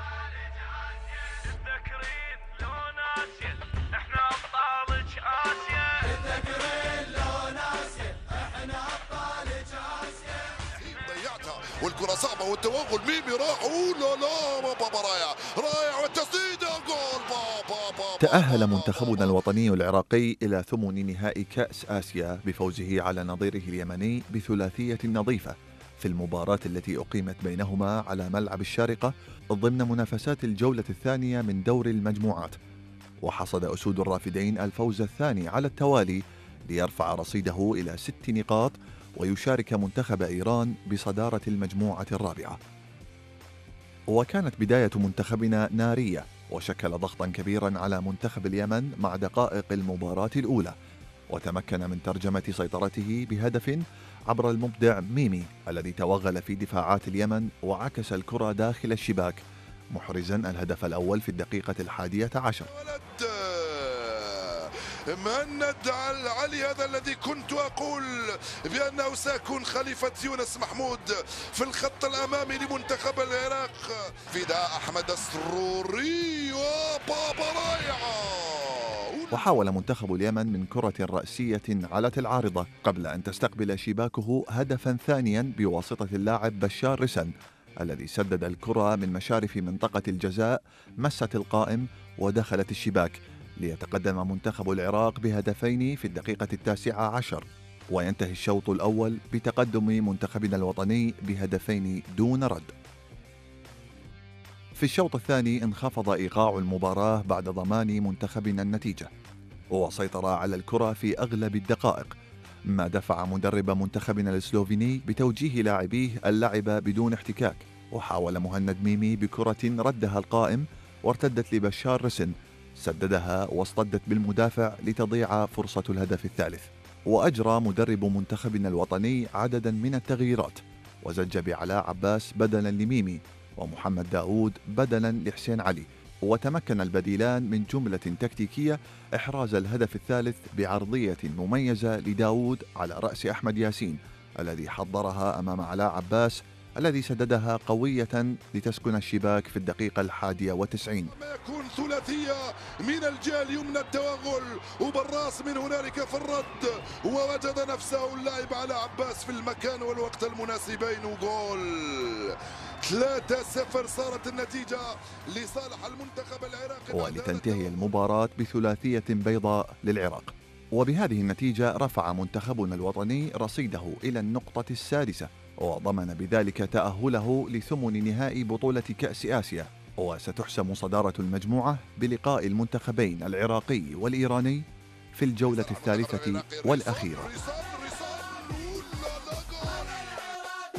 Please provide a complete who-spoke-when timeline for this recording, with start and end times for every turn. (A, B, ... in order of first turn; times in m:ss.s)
0:01.1-0:10.5 A
0:10.6-0:19.4 B
0:18.2-0:32.6 C
0:33.2-0:42.6 C
0:44.1-0:50.7 C
0:51.3-1:02.7 C
1:02.7-1:19.5 B
1:19.3-1:27.3 C
1:27.8-1:42.7 C
1:44.8-1:49.1 C
1:49.7-1:52.2 C
1:52.7-2:31.1 C
2:31.1-2:47.8 B
2:46.9-3:07.3 C
3:05.5-3:10.4 B